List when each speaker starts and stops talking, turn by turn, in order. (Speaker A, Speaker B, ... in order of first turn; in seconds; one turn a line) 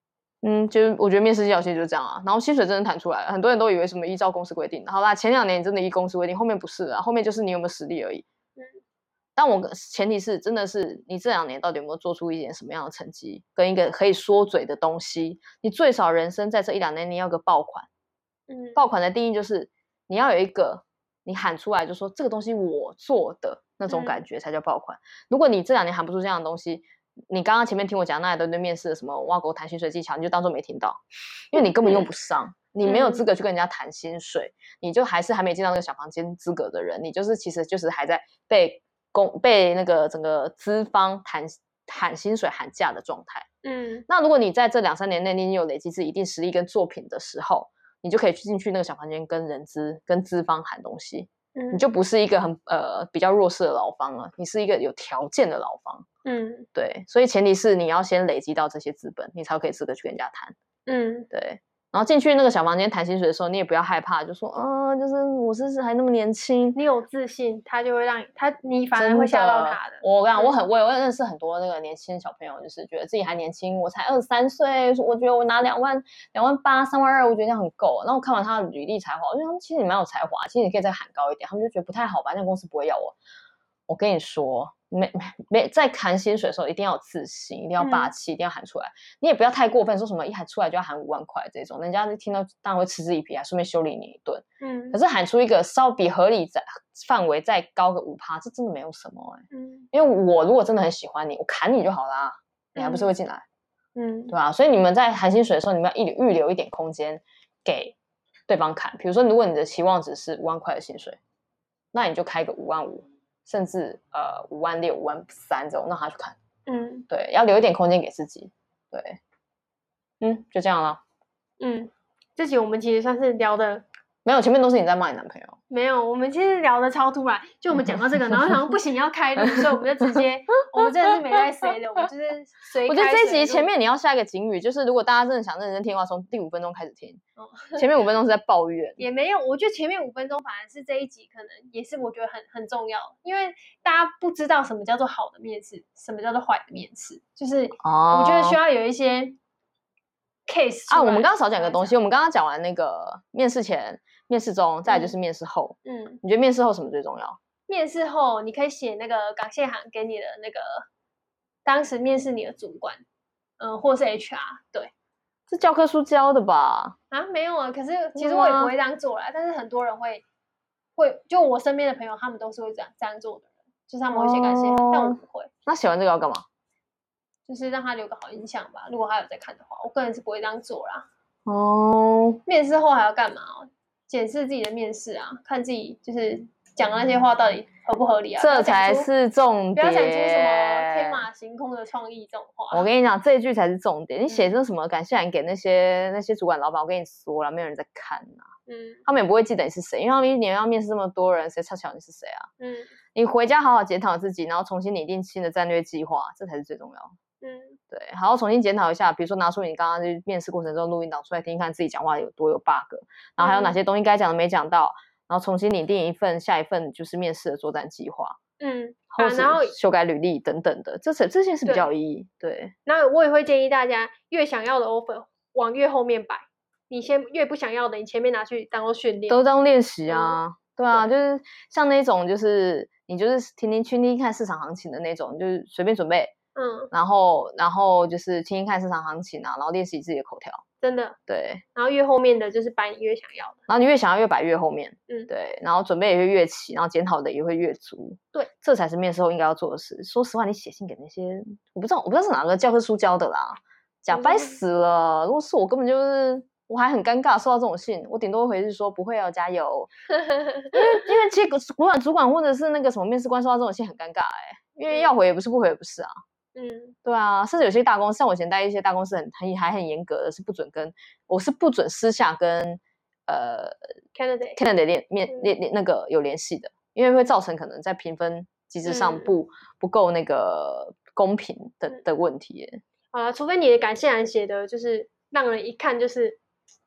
Speaker A: 0.4-8.2
Speaker A: 9.4-17.9
Speaker B: 18.5-18.8
Speaker A: 18.8-31.0
Speaker B: 23.9-24.2
Speaker A: 31.5-43.5
Speaker B: 32.9-33.2
Speaker B: 43.6-44.1
Speaker A: 44.1-56.1
Speaker B: 51.5-51.8
Speaker B: 56.2-56.7
Speaker A: 56.8-60.5
Speaker B: 60.9-61.3
Speaker A: 61.3-66.8
Speaker B: 66.8-70.5
Speaker A: 69.0-83.2
Speaker A: 83.9-103.4
Speaker B: 87.8-88.1
Speaker B: 94.6-95.0
Speaker B: 99.5-99.9
Speaker B: 102.8-103.1
Speaker B: 104.0-104.3
Speaker A: 104.3-108.0
Speaker A: 108.5-111.2
Speaker A: 111.9-116.4
Speaker B: 116.7-117.1
Speaker A: 117.1-119.2
Speaker A: 120.2-121.0
Speaker B: 121.6-123.8
Speaker A: 124.2-125.6
Speaker B: 125.7-133.7
Speaker A: 127.9-128.6
Speaker A: 129.6-130.2
Speaker A: 132.9-137.2
Speaker B: 137.4-138.0
Speaker A: 137.8-139.0
Speaker B: 139.0-149.4
Speaker A: 147.8-148.6
Speaker B: 150.5-152.0
Speaker A: 150.9-157.4
Speaker B: 154.9-155.2
Speaker B: 155.9-156.2
Speaker B: 157.7-160.9
Speaker B: 161.7-163.0
Speaker B: 163.6-164.9
Speaker A: 165.5-167.0
Speaker B: 167.1-170.2
Speaker A: 168.2-168.7
Speaker B: 171.0-175.5
Speaker A: 174.1-176.5
Speaker B: 177.5-181.1
Speaker A: 181.5-182.4
Speaker B: 182.5-189.1
Speaker A: 188.4-191.3
Speaker B: 189.8-192.9
Speaker A: 192.7-198.5
Speaker B: 194.3-194.6
Speaker B: 198.7-199.0
Speaker A: 199.1-202.5
Speaker B: 202.6-202.9
Speaker A: 203.2-207.2
Speaker B: 207.4-207.8
Speaker A: 207.9-218.4
Speaker B: 213.4-213.8
Speaker B: 218.6-219.7
Speaker A: 219.1-222.7
Speaker B: 222.9-229.4
Speaker A: 229.3-236.3
Speaker B: 230.1-230.4
Speaker B: 236.6-236.9
Speaker A: 236.9-240.6
Speaker B: 240.8-241.2
Speaker A: 241.3-241.6
Speaker B: 241.8-243.6
Speaker A: 243.7-259.9
Speaker B: 254.1-254.6
Speaker A: 260.7-266.1
Speaker B: 266.6-267.0
Speaker A: 267.1-273.8
Speaker B: 274.1-274.6
Speaker A: 274.6-282.8
Speaker B: 278.8-279.3
Speaker B: 283.1-286.4